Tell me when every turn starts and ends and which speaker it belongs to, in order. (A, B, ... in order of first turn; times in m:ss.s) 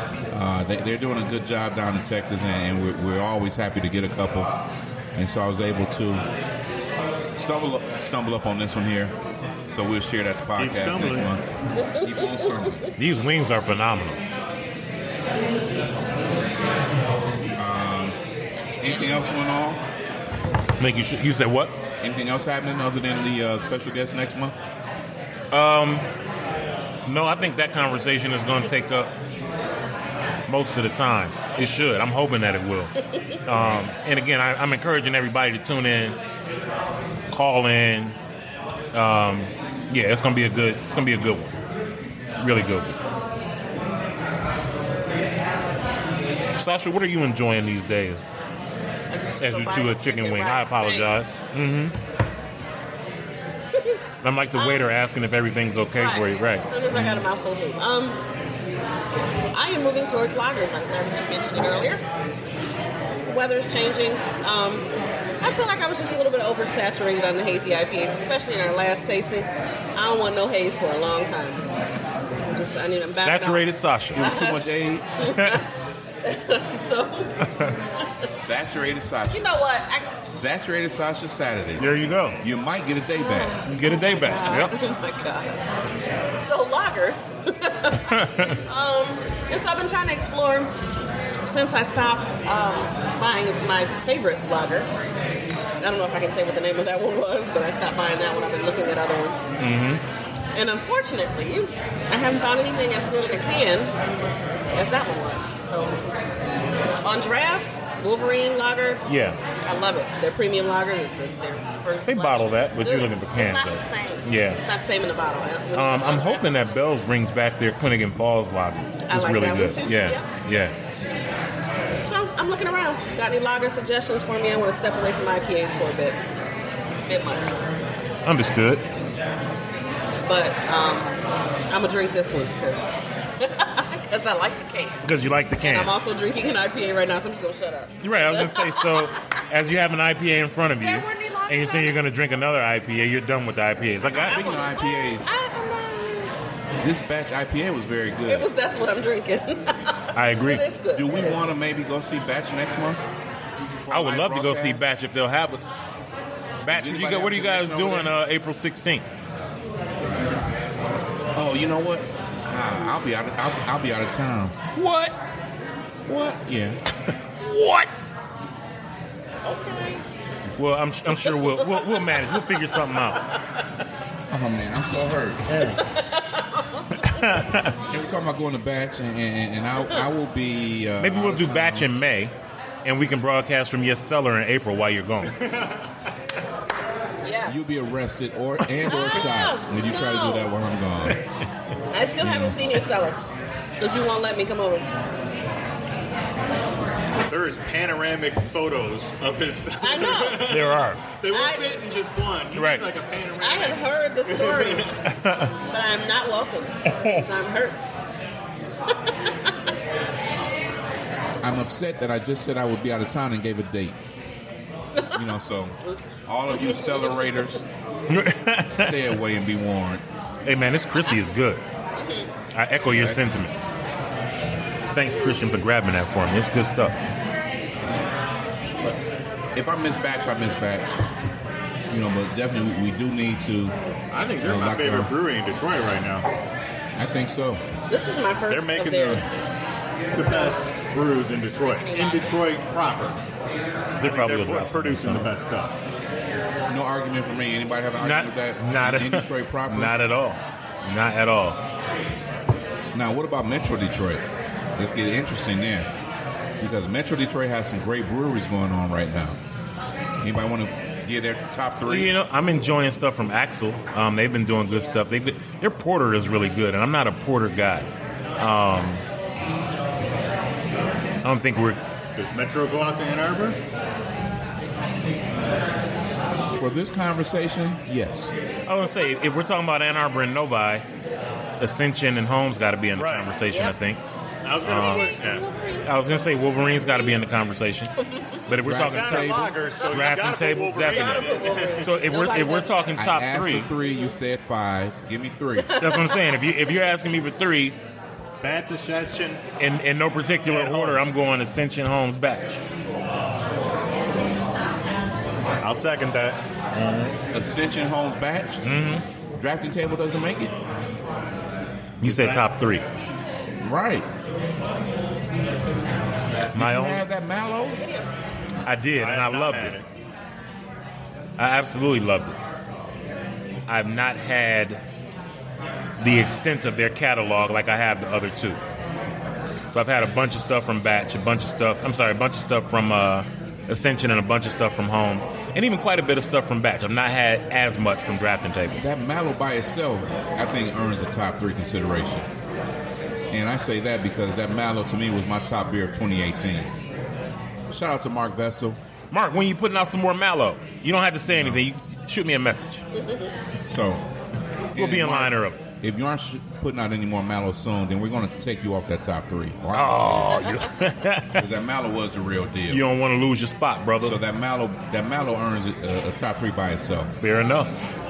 0:00.3-0:04.5 A
0:05.2-0:06.2 A
0:07.3-0:09.1 A
0:09.7-0:11.4 A
0:10.6-0:11.3 B
0:11.8-0:12.2 C
0:12.0-0:12.9 A
0:13.0-0:14.2 D
0:17.6-0:18.2 A
0:18.8-0:19.8 A
0:20.8-0:21.7 D
0:22.0-0:24.5 A
0:25.5-0:26.0 D
0:27.0-0:29.1 D
0:30.5-0:32.9 D
0:33.4-0:36.2 D
0:33.5-0:33.8 A
0:37.3-0:38.2 D
0:38.9-0:41.5 D
0:42.4-0:43.0 D
0:46.5-0:48.2 D
0:49.1-0:51.1 C
0:49.4-0:51.9 D
0:54.2-0:57.2 D
0:54.5-0:54.9 C
0:55.9-0:58.2 C
0:59.5-1:02.0 C
1:03.3-1:04.9 C
1:05.4-1:11.7 C
1:12.4-1:14.6 C
1:13.1-1:14.2 D
1:14.1-1:15.1 A
1:15.2-1:15.6 C
1:16.2-1:17.3 C
1:18.2-1:19.5 A
1:19.3-1:20.1 C
1:20.2-1:23.6 A
1:21.8-1:22.4 D
1:23.1-1:25.6 C
1:23.7-1:24.7 D
1:26.4-1:30.7 C
1:28.1-1:28.6 D
1:31.4-1:34.9 C
1:35.8-1:39.4 C
1:39.6-1:40.0 D
1:40.5-1:43.9 C
1:44.7-1:46.0 C
1:47.0-1:49.0 C
1:49.0-1:49.4 D
1:49.6-1:56.5 C
1:52.0-1:54.6 D
1:55.7-2:00.7 D
1:59.0-2:00.3 C
2:02.0-2:06.2 C
2:07.0-2:07.6 C
2:08.2-2:08.8 D
2:10.2-2:11.2 C
2:11.7-2:19.2 C
2:15.0-2:15.9 D
2:18.0-2:24.4 D
2:20.8-2:22.0 C
2:24.1-2:25.3 A
2:24.2-2:26.3 C
2:26.8-2:28.5 A
2:28.3-2:31.4 C
2:30.2-2:30.6 D
2:30.9-2:33.0 A
2:33.8-2:34.8 A
2:33.9-2:35.7 D
2:36.6-2:39.0 D
2:36.7-2:38.1 A
2:41.3-2:44.6 A
2:44.8-2:45.1 D
2:46.0-2:46.8 A
2:47.4-2:47.9 D
2:49.4-2:50.0 C
2:50.6-2:53.2 D
2:51.2-2:52.5 C
2:54.3-2:55.7 A
2:55.7-2:57.2 C
2:57.0-2:57.8 D
2:57.9-3:01.9 A
3:01.0-3:02.3 D
3:02.8-3:05.4 D
3:05.4-3:05.7 B
3:07.2-3:07.6 C
3:07.5-3:11.2 A
3:08.8-3:10.5 C
3:11.9-3:13.2 C
3:12.2-3:12.5 D
3:13.8-3:14.8 C
3:17.3-3:25.0 B
3:19.8-3:20.5 C
3:20.4-3:21.0 D
3:21.3-3:21.7 C
3:22.5-3:22.9 D
3:23.4-3:25.0 C
3:25.0-3:25.5 D
3:25.7-3:27.8 C
3:26.9-3:27.2 D
3:31.4-3:34.0 A
3:35.1-3:37.6 A
3:35.8-3:37.4 C
3:38.1-3:39.1 D
3:38.7-3:40.0 A
3:40.4-3:41.6 D
3:41.9-3:42.3 C
3:42.5-3:43.7 D
3:42.9-3:43.2 A
3:44.9-3:47.0 D
3:49.5-3:51.0 A
3:51.9-3:53.7 A
3:54.1-3:56.3 B
3:54.4-3:55.1 A
3:57.0-3:57.6 A
3:57.9-3:59.3 C
3:58.5-3:59.3 B
4:00.1-4:03.2 B
4:00.2-4:00.5 C
4:01.7-4:02.3 C
4:04.0-4:05.4 D
4:04.0-4:05.8 B
4:06.7-4:10.0 A
4:08.0-4:11.6 D
4:12.9-4:14.2 A
4:14.8-4:15.9 A
4:16.6-4:19.4 A
4:20.2-4:22.1 A
4:21.8-4:27.9 D
4:24.7-4:25.0 C
4:28.4-4:29.0 D
4:31.2-4:31.8 D
4:32.2-4:33.6 B
4:36.5-4:38.3 A
4:38.6-4:40.8 D
4:41.6-4:44.0 D
4:42.9-4:43.3 B
4:43.5-4:43.7 C
4:44.4-4:45.5 B
4:44.6-4:45.2 D
4:44.8-4:45.9 C
4:45.8-4:47.9 D
4:48.0-4:48.3 C
4:48.4-4:53.7 D
4:48.6-4:49.6 A
4:48.6-4:51.9 B
4:50.8-4:53.0 C
4:52.9-4:55.8 A
4:53.8-4:54.1 C
4:55.6-4:56.2 C
4:55.8-4:57.8 D
4:58.4-4:59.4 B
4:59.6-5:02.6 D
5:00.5-5:01.0 B
5:05.6-5:06.4 B
5:07.3-5:08.6 A
5:08.6-5:09.0 D
5:09.4-5:10.5 A
5:12.0-5:12.8 D
5:12.0-5:12.4 B
5:13.6-5:14.1 A
5:16.5-5:17.8 A
5:16.5-5:17.0 D
5:17.8-5:18.1 C
5:18.6-5:19.8 D
5:18.9-5:19.8 B
5:21.4-5:22.4 D
5:23.7-5:24.8 D
5:26.0-5:28.6 D
5:29.7-5:38.8 D
5:38.8-5:42.3 A
5:43.3-5:46.7 A
5:47.7-5:48.8 A
5:49.1-5:52.8 D
5:51.3-5:51.6 A
5:52.9-5:53.3 C
5:53.6-5:54.0 A
5:54.7-6:00.4 A
5:54.8-5:55.6 D
5:59.7-6:01.4 D
6:01.3-6:02.8 A
6:02.7-6:04.2 D
6:04.0-6:07.1 A
6:07.2-6:07.7 D